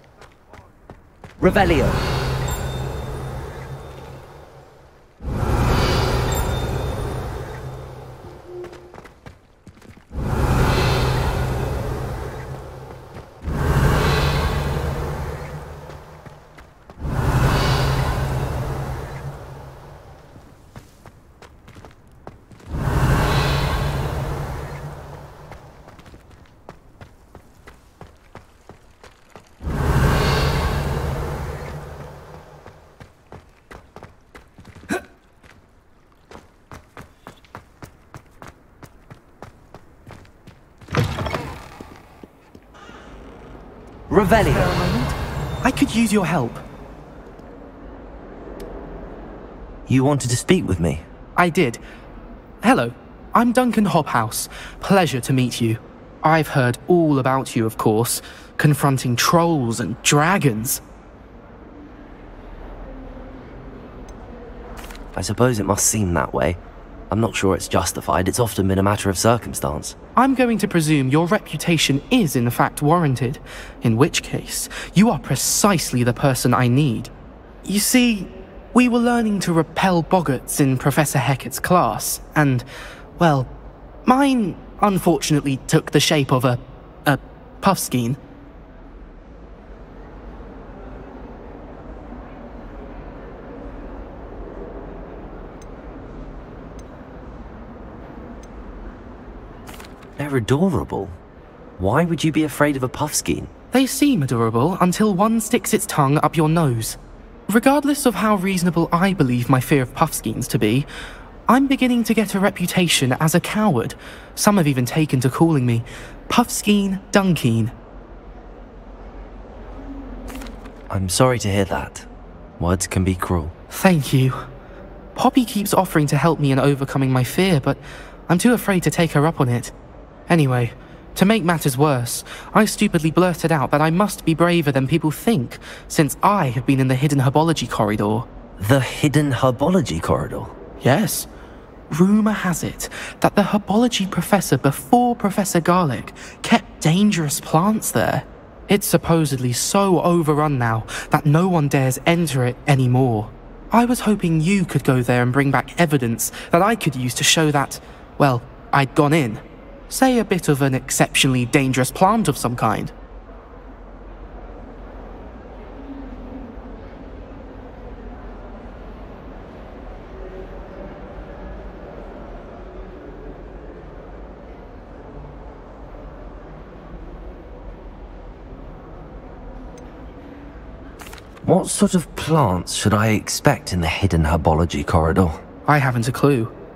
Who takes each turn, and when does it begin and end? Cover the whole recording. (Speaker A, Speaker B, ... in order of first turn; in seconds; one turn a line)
Speaker A: 1.4-2.0
Speaker A: 44.1-44.7
Speaker B: 44.6-45.1
Speaker B: 45.6-46.6
Speaker A: 49.9-51.0
Speaker B: 51.4-51.8
Speaker B: 52.6-60.8
Speaker A: 65.1-66.6
Speaker A: 67.1-70.0
Speaker B: 70.2-77.1
Speaker B: 77.6-82.7
Speaker B: 83.2-83.5
Speaker B: 84.0-88.2
Speaker A: 100.2-101.2
Speaker A: 101.8-103.5
Speaker B: 103.7-110.9
Speaker B: 111.5-117.7
Speaker A: 120.9-122.1
Speaker A: 122.6-123.5
Speaker B: 123.7-124.4
Speaker B: 125.2-129.7
Speaker B: 130.3-138.3
Speaker A: 138.6-140.5
Speaker B: 140.8-141.3
Speaker B: 141.9-162.9
Speaker A: 181.4-185.4
Speaker B: 185.7-186.5